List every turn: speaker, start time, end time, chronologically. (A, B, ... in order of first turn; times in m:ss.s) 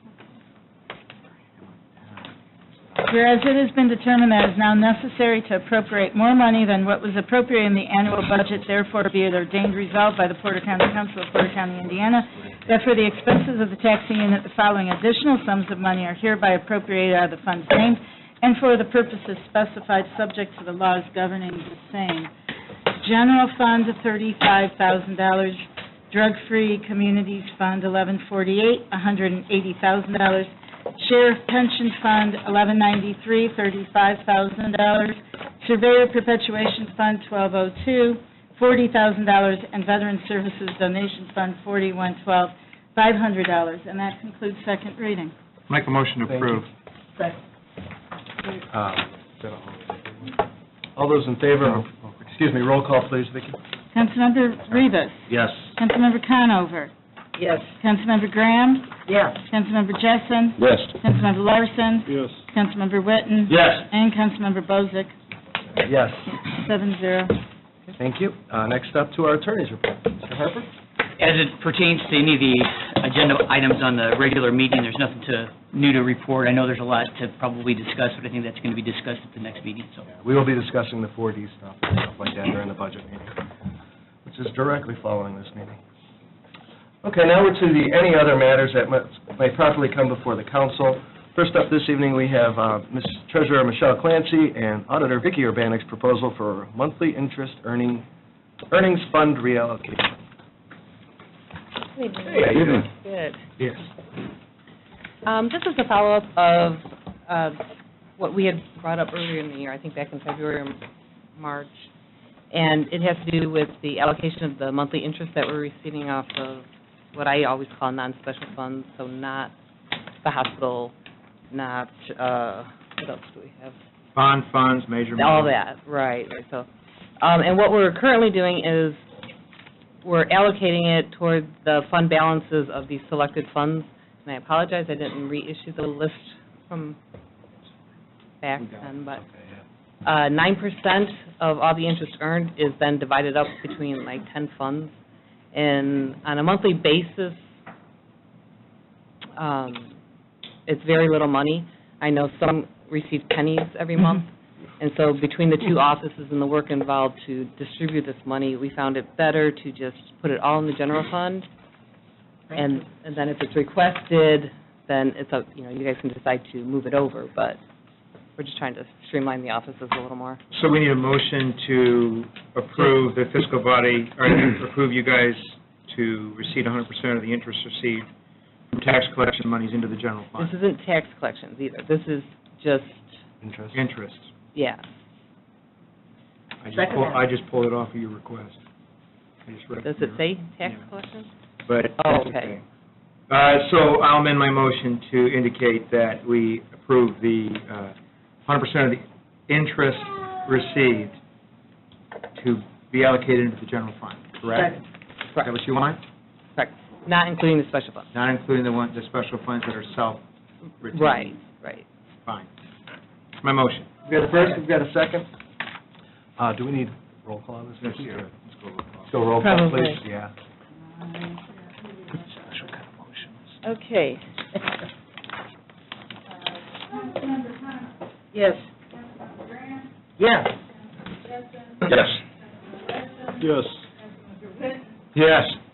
0:03.0-0:22.3 A
0:23.0-0:45.3 A
0:45.7-0:46.7 B
0:46.3-0:46.6 C
0:48.7-0:49.9 C
0:51.0-0:53.6 C
0:53.9-0:56.9 A
0:55.3-0:55.6 C
0:57.7-1:05.1 A
1:03.5-1:03.8 C
1:05.8-1:06.4 C
1:06.5-1:07.4 A
1:08.0-1:10.7 C
1:11.2-1:20.0 D
1:20.2-1:23.4 C
1:24.2-1:25.8 C
1:27.0-1:38.0 C
1:38.7-1:40.1 C
1:41.9-1:43.4 E
1:45.2-1:47.6 E
1:48.2-1:50.8 E
1:51.4-1:51.9 E
1:52.5-1:59.5 E
2:00.2-2:00.9 E
2:01.5-2:03.8 E
2:04.1-2:05.5 B
2:05.2-2:06.7 E
2:07.2-2:09.0 E
2:10.0-2:17.0 E
2:18.4-2:19.2 E
2:20.0-2:24.9 E
2:25.5-2:27.4 E
2:29.4-2:29.9 E
2:30.7-2:34.3 E
2:34.8-2:41.5 E
2:42.5-2:47.6 E
2:48.4-2:50.4 E
2:50.5-2:58.1 B
2:58.7-3:00.5 B
3:00.4-3:03.1 E
3:03.4-3:03.8 C
3:03.7-3:04.3 B
3:04.5-3:04.8 E
3:06.6-3:08.6 B
3:09.5-3:10.8 B
3:09.8-3:11.3 E
3:11.7-3:12.6 B
3:12.0-3:12.5 E
3:13.3-3:17.9 B
3:18.5-3:21.2 B
3:22.3-3:24.8 B
3:25.4-3:26.0 B
3:26.6-3:28.1 E
3:28.1-3:30.2 B
3:30.8-3:31.4 B
3:30.9-3:31.8 E
3:33.4-3:33.9 B
3:34.1-3:35.3 C
3:36.4-3:38.2 C
3:37.8-3:39.1 B
3:39.1-3:40.3 C
3:41.1-3:41.5 A
3:42.4-3:43.1 B
3:43.7-3:44.2 A
3:46.3-3:48.0 A
3:48.9-3:50.0 A
3:50.9-3:55.2 A
3:55.2-3:55.6 B